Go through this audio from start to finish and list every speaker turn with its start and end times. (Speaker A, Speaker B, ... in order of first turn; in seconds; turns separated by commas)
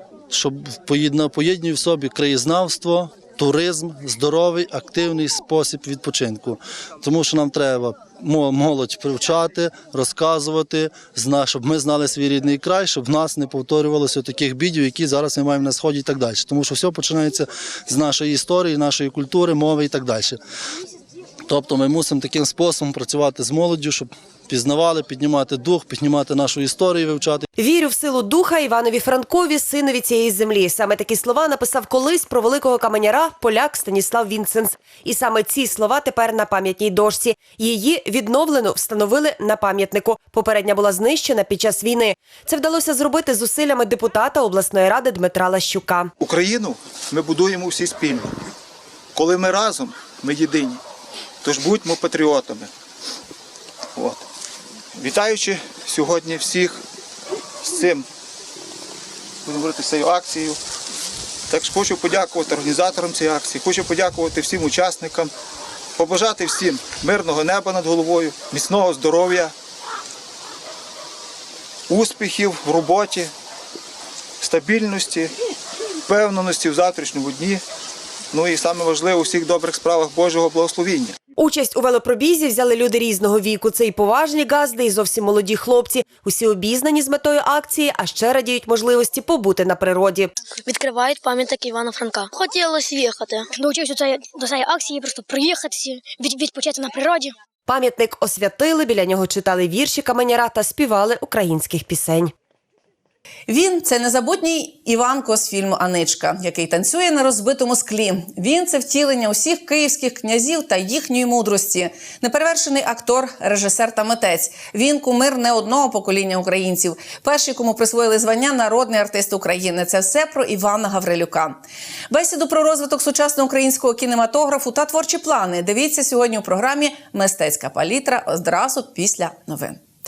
Speaker A: 0.3-20.4, Speaker A: 21.5-27.5, Speaker B: 27.6-46.1, Speaker C: 46.2-48.3, Speaker C: 49.1-50.8, Speaker C: 51.4-52.7, Speaker C: 54.0-54.2, Speaker C: 55.0-56.8, Speaker C: 57.6-58.0, Speaker C: 59.4-60.6, Speaker C: 61.5-65.3, Speaker C: 66.0-69.5, Speaker C: 71.9-73.3, Speaker C: 74.4-75.3, Speaker C: 76.0-77.6, Speaker C: 78.3-81.2, Speaker B: 81.4-90.3, Speaker D: 90.7-97.3, Speaker B: 97.7-102.3, Speaker E: 103.5-121.5, Speaker E: 122.1-129.8